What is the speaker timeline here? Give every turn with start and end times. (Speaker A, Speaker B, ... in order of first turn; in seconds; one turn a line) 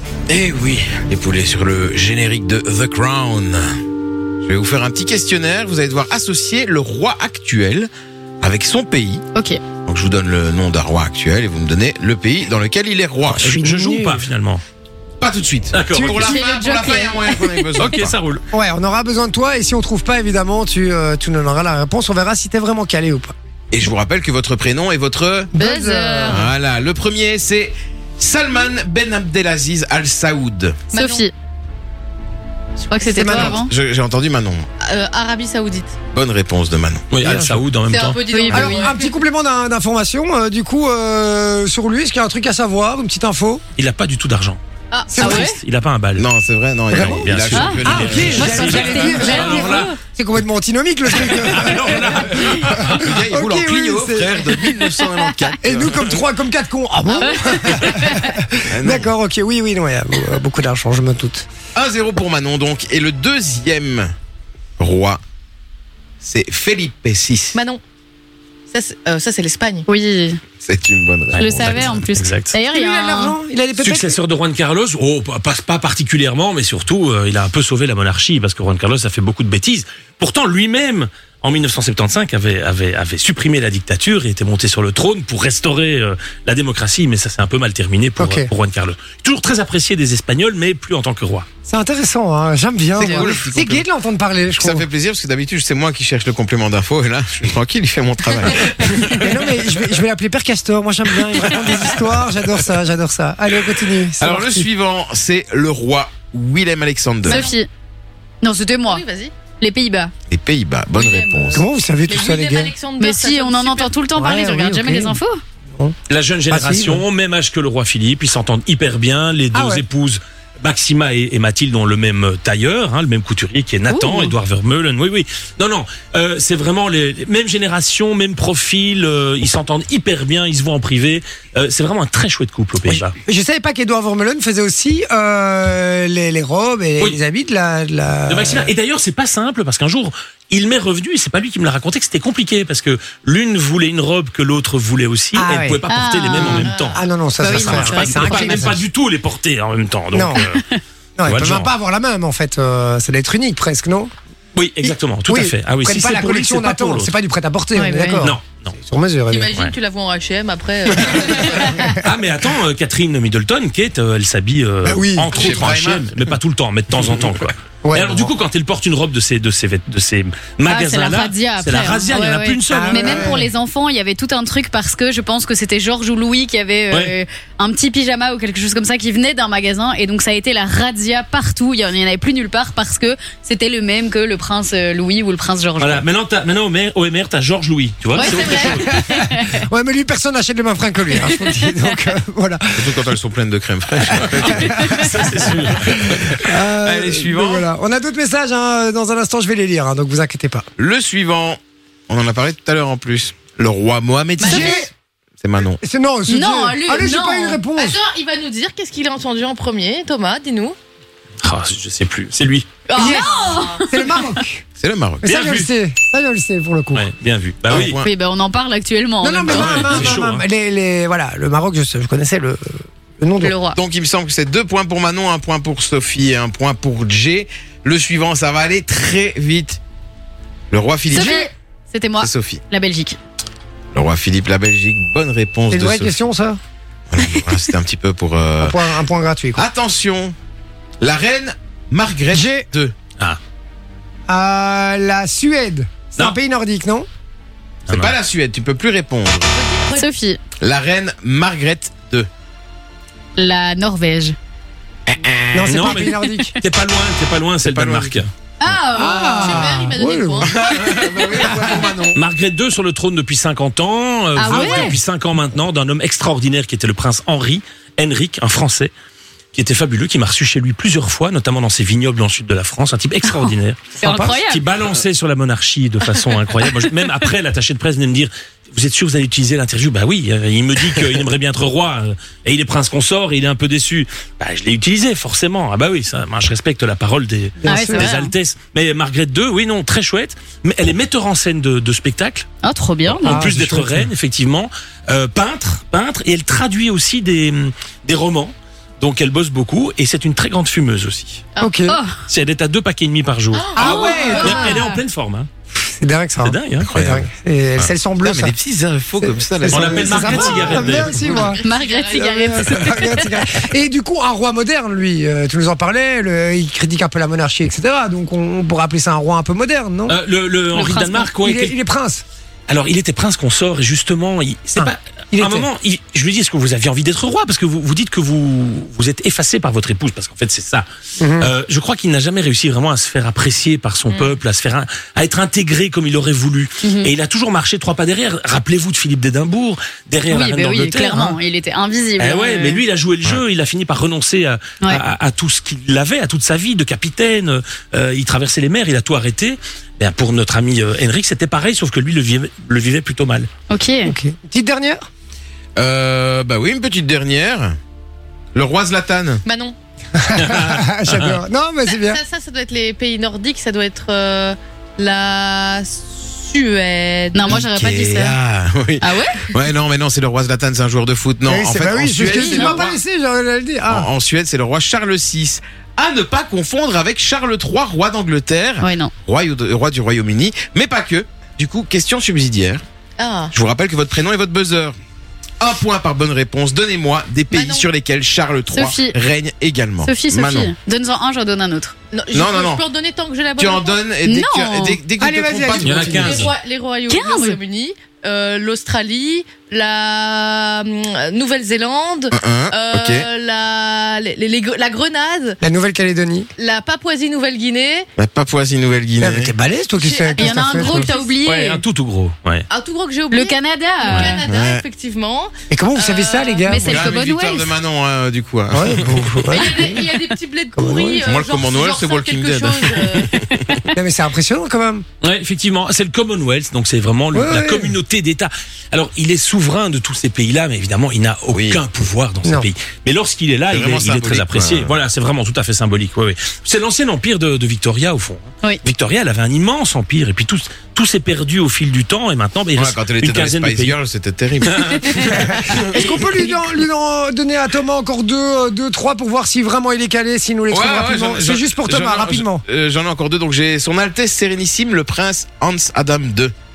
Speaker A: 0.3-3.7
Speaker A: 4.4-7.9
Speaker A: 8.4-9.2
Speaker B: 9.3-9.6
Speaker A: 9.9-13.6
Speaker C: 13.3-14.2
Speaker D: 13.3-14.6
Speaker A: 15.2-18.2
Speaker D: 15.7-16.2
Speaker C: 15.9-16.4
Speaker B: 16.2-17.9
Speaker D: 17.8-18.4
Speaker C: 18.5-23.3
Speaker A: 23.7-25.5
Speaker C: 25.5-26.5
Speaker E: 25.6-26.5
Speaker A: 26.3-30.8
Speaker B: 30.9-31.3
Speaker E: 30.9-31.3
Speaker E: 32.8-33.4
Speaker B: 32.9-33.7
Speaker C: 33.1-33.6
Speaker A: 33.3-34.7
Speaker E: 34.8-36.0
Speaker A: 36.1-37.1
Speaker D: 37.1-38.2
Speaker C: 37.2-37.6
Speaker E: 37.9-39.2
Speaker B: 38.3-38.7
Speaker C: 38.5-43.6
Speaker D: 43.8-44.6
Speaker E: 44.9-45.6
Speaker C: 45.1-45.5
Speaker D: 45.2-46.3
Speaker A: 46.2-49.0
Speaker D: 46.9-50.0
Speaker C: 46.9-54.4
Speaker B: 48.3-50.0
Speaker D: 51.2-53.2
Speaker A: 52.5-56.2
Speaker C: 55.6-61.5
Speaker B: 57.1-58.4
Speaker A: 58.7-59.1
Speaker A: 61.8-64.1
Speaker A: 64.8-65.2
Speaker A: 66.2-67.6
Speaker E: 67.5-67.8
Speaker E: 68.7-69.9
Speaker B: 69.9-70.4
Speaker A: 70.6-72.1
Speaker D: 71.3-72.5
Speaker B: 71.4-73.4
Speaker C: 72.7-74.2
Speaker D: 73.8-91.5
Speaker C: 88.2-88.5
Speaker C: 91.7-94.9
Speaker A: 93.0-93.9
Speaker A: 94.6-99.7
Speaker C: 99.1-104.7
Speaker A: 104.2-107.4
Speaker B: 107.3-107.7
Speaker E: 107.3-107.6
Speaker B: 108.4-110.1
Speaker E: 108.9-109.3
Speaker A: 110.3-111.6
Speaker E: 110.9-114.0
Speaker C: 111.5-112.7
Speaker B: 113.0-115.4
Speaker C: 114.2-115.2
Speaker D: 116.1-133.2
Speaker C: 116.5-117.0
Speaker C: 119.5-119.8
Speaker B: 123.9-124.3
Speaker C: 132.9-138.7
Speaker D: 138.3-150.7
Speaker C: 145.3-145.8
Speaker B: 145.9-146.7
Speaker C: 146.4-148.8
Speaker E: 146.5-147.0
Speaker B: 147.4-148.8
Speaker C: 150.1-150.4
Speaker C: 151.2-154.1
Speaker D: 151.3-151.7
Speaker D: 154.6-157.1
Speaker C: 154.9-159.5
Speaker B: 157.8-158.3
Speaker D: 158.2-158.8
Speaker E: 159.3-161.7
Speaker C: 161.7-162.0
Speaker D: 162.0-173.3
Speaker C: 164.8-165.6
Speaker A: 165.3-166.2
Speaker C: 167.8-168.3
Speaker B: 170.7-186.1
Speaker C: 172.7-173.5
Speaker D: 185.8-188.9
Speaker B: 188.1-189.6
Speaker C: 188.2-193.0
Speaker B: 191.2-191.7
Speaker A: 192.8-195.3
Speaker C: 194.1-200.7
Speaker D: 194.9-196.3
Speaker A: 196.3-197.7
Speaker A: 200.8-205.8
Speaker E: 204.4-204.8
Speaker C: 204.4-204.9
Speaker C: 205.8-208.0
Speaker B: 206.3-207.6
Speaker E: 207.8-210.8
Speaker D: 211.4-212.7
Speaker E: 212.9-213.6
Speaker B: 213.0-214.3
Speaker C: 213.0-213.3
Speaker C: 213.8-214.6
Speaker A: 214.8-215.3
Speaker C: 215.2-217.1
Speaker D: 215.2-215.7
Speaker D: 216.9-218.0
Speaker A: 217.7-218.1
Speaker B: 218.0-220.2
Speaker C: 219.2-223.6
Speaker D: 219.4-220.4
Speaker B: 223.4-223.8
Speaker A: 223.7-229.8
Speaker A: 230.7-231.5
Speaker B: 231.1-233.2
Speaker C: 231.2-231.4
Speaker A: 232.2-232.6
Speaker A: 233.9-236.2
Speaker C: 235.7-236.6
Speaker A: 237.1-238.8
Speaker C: 238.6-239.6
Speaker A: 239.6-240.3
Speaker A: 241.0-242.9
Speaker C: 242.3-242.7
Speaker C: 244.3-247.1
Speaker A: 247.9-249.5
Speaker D: 247.9-248.1
Speaker E: 249.5-250.1
Speaker B: 249.9-250.4
Speaker A: 250.6-252.3
Speaker B: 253.4-254.4
Speaker A: 255.1-255.9
Speaker C: 255.5-256.6
Speaker D: 255.7-258.3
Speaker A: 257.6-258.2
Speaker B: 258.6-259.5
Speaker C: 258.9-260.5
Speaker E: 259.1-260.9
Speaker A: 260.6-262.2
Speaker C: 261.4-261.9
Speaker D: 262.1-268.9
Speaker B: 264.4-265.0
Speaker C: 264.5-264.9
Speaker D: 269.5-292.5
Speaker B: 274.0-274.6
Speaker C: 274.0-274.4
Speaker C: 287.6-288.1
Speaker B: 287.6-288.3
Speaker B: 292.6-293.5
Speaker D: 293.1-301.5
Speaker C: 293.2-294.1
Speaker C: 301.6-302.0
Speaker B: 301.9-302.2
Speaker D: 302.3-305.5
Speaker E: 303.5-304.7
Speaker C: 303.7-304.9
Speaker B: 303.8-304.9
Speaker C: 305.8-308.5
Speaker D: 306.4-306.9
Speaker A: 306.8-307.2
Speaker A: 307.8-310.9
Speaker C: 309.2-320.1
Speaker D: 309.7-311.4
Speaker E: 310.5-312.2
Speaker B: 311.6-313.4
Speaker D: 320.1-321.8
Speaker B: 320.7-321.3
Speaker C: 321.4-322.2
Speaker D: 322.7-330.9
Speaker C: 324.8-325.7
Speaker C: 331.2-331.5
Speaker D: 331.4-341.4
Speaker E: 334.1-334.4
Speaker B: 336.8-337.1
Speaker B: 340.3-342.8
Speaker D: 342.2-353.5
Speaker B: 353.7-354.1
Speaker C: 354.1-355.0
Speaker A: 355.8-357.8
Speaker A: 358.6-359.4
Speaker E: 359.4-359.8
Speaker C: 360.2-362.2
Speaker D: 360.4-361.4
Speaker E: 361.9-367.4
Speaker B: 367.3-368.4
Speaker A: 367.5-373.0
Speaker B: 369.0-369.4
Speaker C: 371.5-374.1
Speaker B: 372.4-372.8
Speaker A: 373.9-382.8
Speaker B: 378.8-379.1
Speaker E: 383.2-383.5
Speaker A: 383.5-385.0
Speaker A: 385.6-390.7
Speaker E: 387.5-387.9
Speaker B: 388.7-389.2
Speaker B: 390.0-391.9
Speaker E: 392.1-394.1
Speaker A: 392.3-392.9
Speaker A: 393.6-396.4
Speaker B: 394.2-395.0
Speaker C: 395.2-396.2
Speaker D: 395.8-396.6
Speaker E: 395.9-405.6
Speaker B: 397.1-397.6
Speaker A: 402.3-403.3
Speaker C: 405.6-406.5
Speaker E: 406.6-408.1
Speaker A: 408.2-409.5
Speaker C: 409.2-411.1
Speaker E: 410.1-411.3
Speaker B: 410.2-411.8
Speaker D: 411.4-412.7
Speaker E: 412.7-416.9
Speaker B: 413.3-414.4
Speaker D: 414.1-414.4
Speaker A: 414.4-414.8
Speaker C: 415.7-417.2
Speaker B: 416.7-417.7
Speaker A: 416.8-419.4
Speaker C: 418.7-420.0
Speaker E: 419.5-423.3
Speaker C: 420.8-421.2
Speaker A: 421.3-423.7
Speaker C: 423.9-425.1
Speaker D: 425.2-444.0
Speaker C: 427.3-428.0
Speaker A: 431.5-431.8
Speaker A: 433.7-434.9
Speaker A: 442.8-446.4
Speaker D: 444.7-445.4
Speaker C: 445.8-452.6
Speaker A: 450.7-456.5